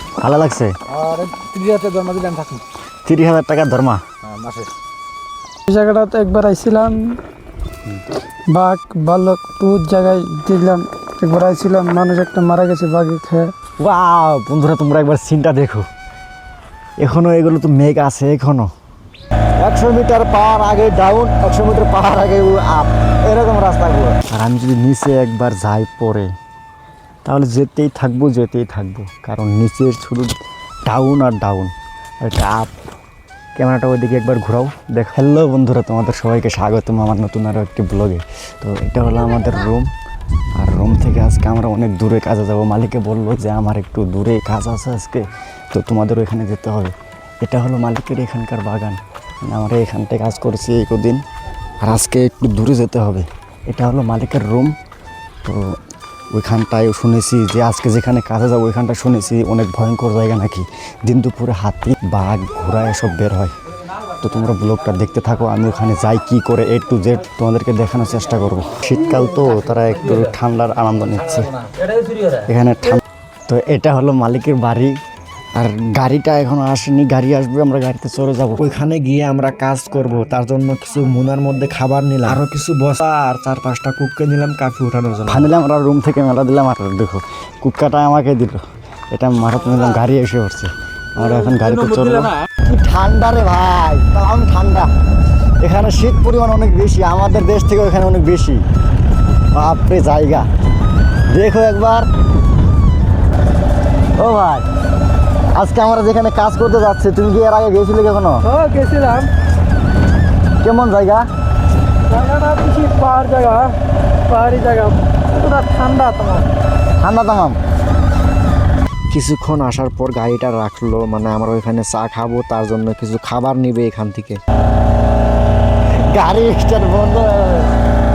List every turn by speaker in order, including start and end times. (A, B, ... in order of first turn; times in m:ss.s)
0:00.2-0:00.7 A
0:00.9-0:02.6 B
0:03.1-0:04.0 A
0:04.3-0:04.7 B
0:05.7-0:07.0 C
0:08.5-0:13.5 C
0:13.8-0:15.9 A
0:17.0-0:18.7 A
0:19.6-0:26.3 A
0:27.2-0:30.3 A
0:30.9-0:32.7 A
0:33.6-0:39.9 A
0:40.6-0:51.2 A
0:51.8-0:54.8 A
0:55.4-0:55.8 A
0:56.3-1:03.5 A
1:04.2-1:11.6 A
1:12.3-1:15.0 A
1:15.5-1:34.9 A
1:35.6-1:38.6 A
1:39.5-1:40.5 A
1:41.3-1:42.1 A
1:44.2-1:44.7 A
1:45.5-1:48.5 A
1:48.5-1:49.3 C
1:50.6-1:51.3 A
1:52.1-1:53.8 C
1:54.3-1:56.5 C
1:57.0-1:57.6 A
1:59.1-2:04.4 A
2:06.1-2:07.8 A